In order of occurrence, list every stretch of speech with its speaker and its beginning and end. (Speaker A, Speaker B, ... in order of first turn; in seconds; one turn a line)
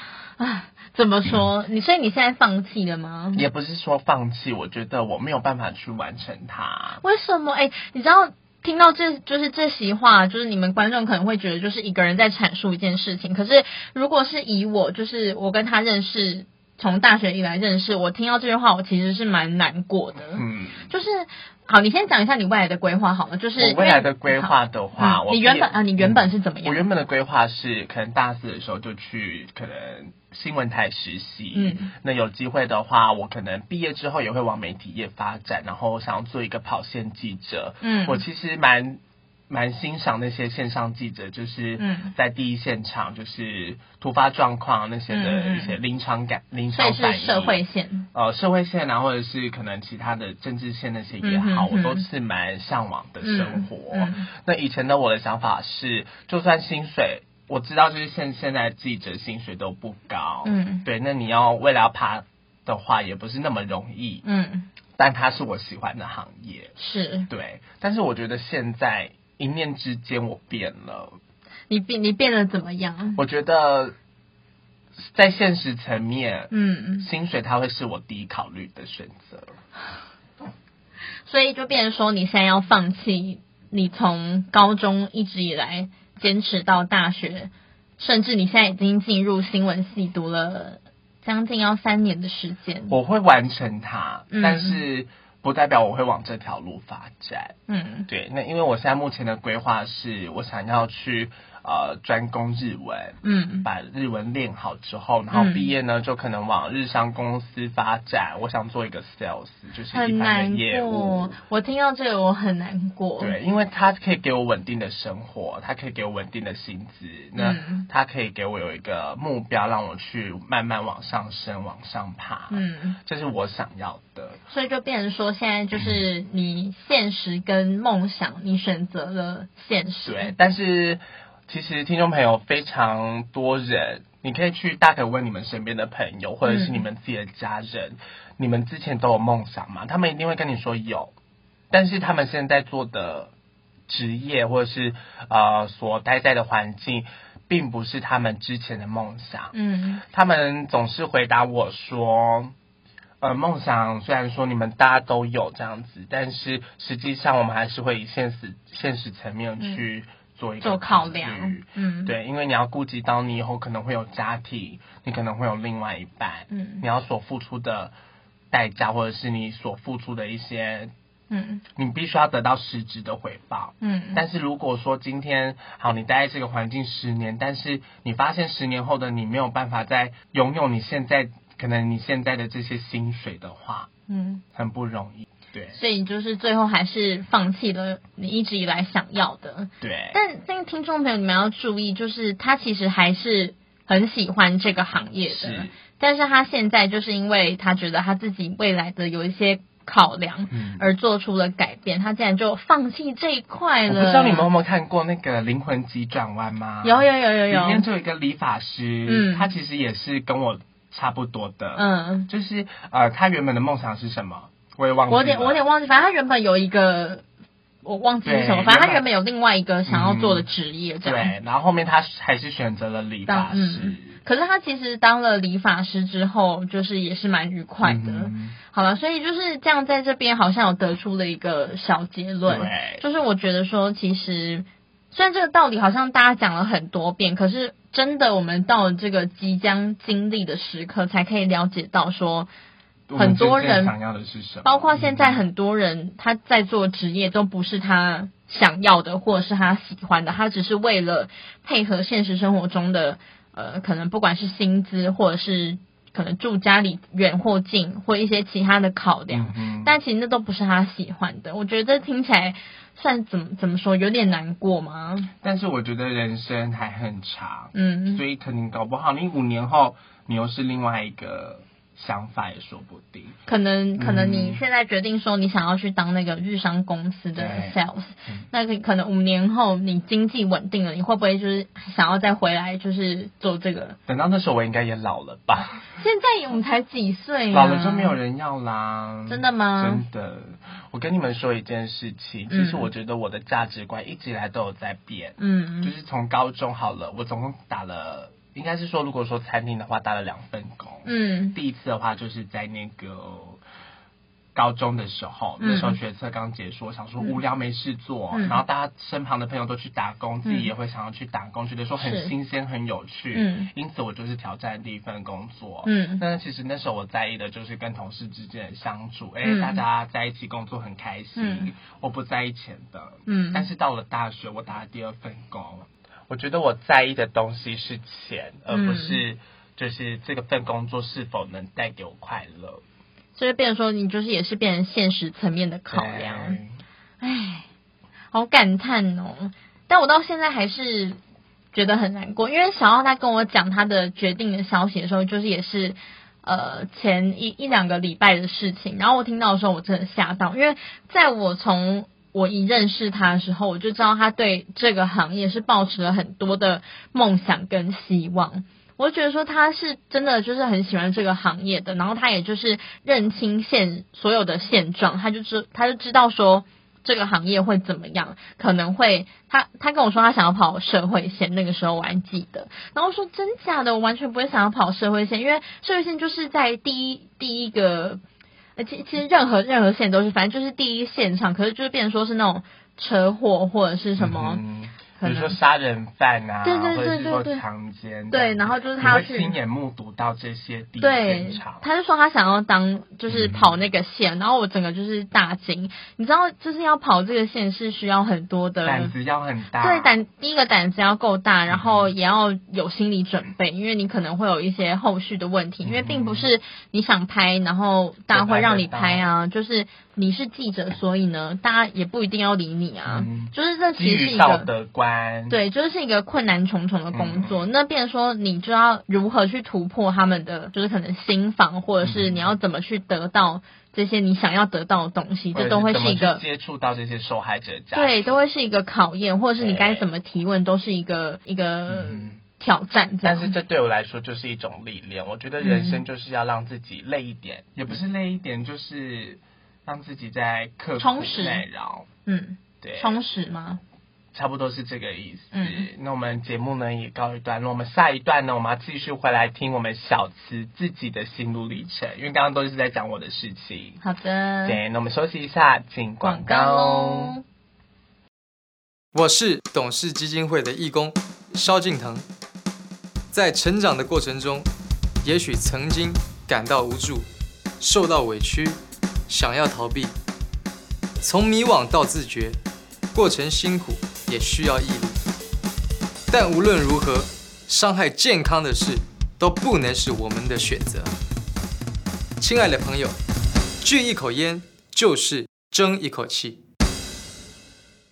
Speaker A: 0.4-3.4
Speaker B: 3.3-7.0
Speaker A: 7.0-26.8
Speaker B: 20.3-20.9
Speaker B: 23.6-47.6
Speaker A: 31.5-31.9
Speaker A: 37.8-38.2
Speaker A: 41.8-42.1
Speaker A: 45.1-45.8
Speaker A: 46.7-48.1
Speaker B: 48.1-64.2
Speaker A: 51.2-52.0
Speaker A: 53.2-54.3
Speaker A: 60.4-60.8
Speaker A: 64.2-64.7
Speaker B: 65.0-66.7
Speaker A: 66.8-67.3
Speaker B: 67.3-71.2
Speaker A: 71.7-73.2
Speaker B: 73.2-73.9
Speaker B: 75.0-79.5
Speaker A: 76.5-77.1
Speaker A: 81.3-93.0
Speaker B: 92.9-97.5
Speaker A: 94.3-94.8
Speaker A: 97.7-98.1
Speaker B: 98.1-111.4
Speaker A: 103.2-103.7
Speaker A: 105.3-105.7
Speaker A: 109.9-113.3
Speaker B: 113.2-124.4
Speaker A: 117.3-117.9
Speaker A: 122.5-123.0
Speaker A: 124.5-130.3
Speaker B: 130.0-141.1
Speaker A: 136.4-136.8
Speaker B: 141.7-143.3
Speaker B: 143.9-149.5
Speaker A: 149.5-150.0
Speaker B: 150.1-152.5
Speaker B: 153.2-167.9
Speaker A: 160.6-162.1
Speaker A: 166.5-166.8
Speaker B: 168.5-170.9
Speaker A: 171.3-171.6
Speaker B: 171.8-183.9
Speaker A: 173.8-174.2
Speaker A: 184.1-184.4
Speaker B: 184.5-185.8
Speaker A: 185.7-204.5
Speaker B: 189.8-190.2
Speaker B: 195.3-195.7
Speaker B: 200.5-200.8
Speaker B: 203.9-215.6
Speaker A: 206.8-207.8
Speaker A: 209.1-209.5
Speaker A: 211.8-212.3
Speaker A: 215.1-217.2
Speaker A: 217.8-221.3
Speaker B: 218.2-219.0
Speaker B: 219.9-220.5
Speaker B: 221.0-224.1
Speaker A: 223.3-242.5
Speaker B: 227.8-228.6
Speaker B: 232.5-233.0
Speaker B: 243.1-245.4
Speaker A: 243.2-243.9
Speaker A: 244.6-265.3
Speaker B: 259.3-259.9
Speaker B: 265.4-273.4
Speaker A: 267.7-268.2
Speaker A: 273.5-284.0
Speaker B: 273.9-274.6
Speaker B: 277.3-278.5
Speaker B: 284.1-285.9
Speaker A: 286.0-288.2
Speaker B: 287.5-303.6
Speaker A: 289.3-290.0
Speaker A: 292.5-292.9
Speaker A: 295.4-295.9
Speaker A: 301.1-301.6
Speaker B: 304.5-332.8
Speaker A: 305.6-305.9
Speaker A: 308.3-308.6
Speaker A: 310.4-310.7
Speaker A: 312.0-312.3
Speaker A: 313.3-313.7
Speaker A: 315.9-316.2
Speaker A: 319.4-319.8
Speaker A: 321.4-321.7
Speaker A: 323.3-323.7
Speaker A: 328.7-329.2
Speaker A: 333.3-336.6
Speaker B: 335.9-336.8
Speaker A: 337.2-337.7
Speaker A: 338.3-341.2
Speaker A: 341.7-378.2
Speaker A: 378.8-384.6
Speaker B: 384.2-391.8
Speaker A: 385.2-385.6
Speaker A: 386.6-387.6
Speaker A: 388.3-389.6
Speaker A: 391.0-399.1
Speaker B: 393.3-393.7
Speaker B: 398.8-400.1
Speaker A: 399.8-414.7
Speaker B: 401.7-402.1
Speaker B: 405.8-406.5
Speaker B: 408.3-409.2
Speaker B: 413.1-415.6
Speaker A: 415.5-426.4
Speaker B: 417.1-417.6
Speaker B: 422.0-422.5
Speaker B: 425.5-428.3
Speaker A: 427.9-433.5
Speaker B: 429.6-430.1
Speaker B: 431.9-432.4
Speaker B: 433.2-442.1
Speaker A: 435.6-436.0
Speaker A: 441.0-441.6
Speaker A: 442.2-443.8
Speaker B: 442.8-443.2
Speaker B: 444.3-454.0
Speaker A: 445.5-445.9
Speaker A: 454.0-454.8
Speaker B: 454.6-457.3
Speaker A: 456.2-457.4
Speaker C: 459.1-462.2
Speaker C: 463.3-464.7
Speaker C: 465.2-467.3
Speaker C: 467.8-470.1
Speaker C: 471.2-472.6
Speaker C: 473.1-475.2
Speaker C: 476.3-481.1
Speaker C: 482.4-483.2
Speaker C: 483.8-486.6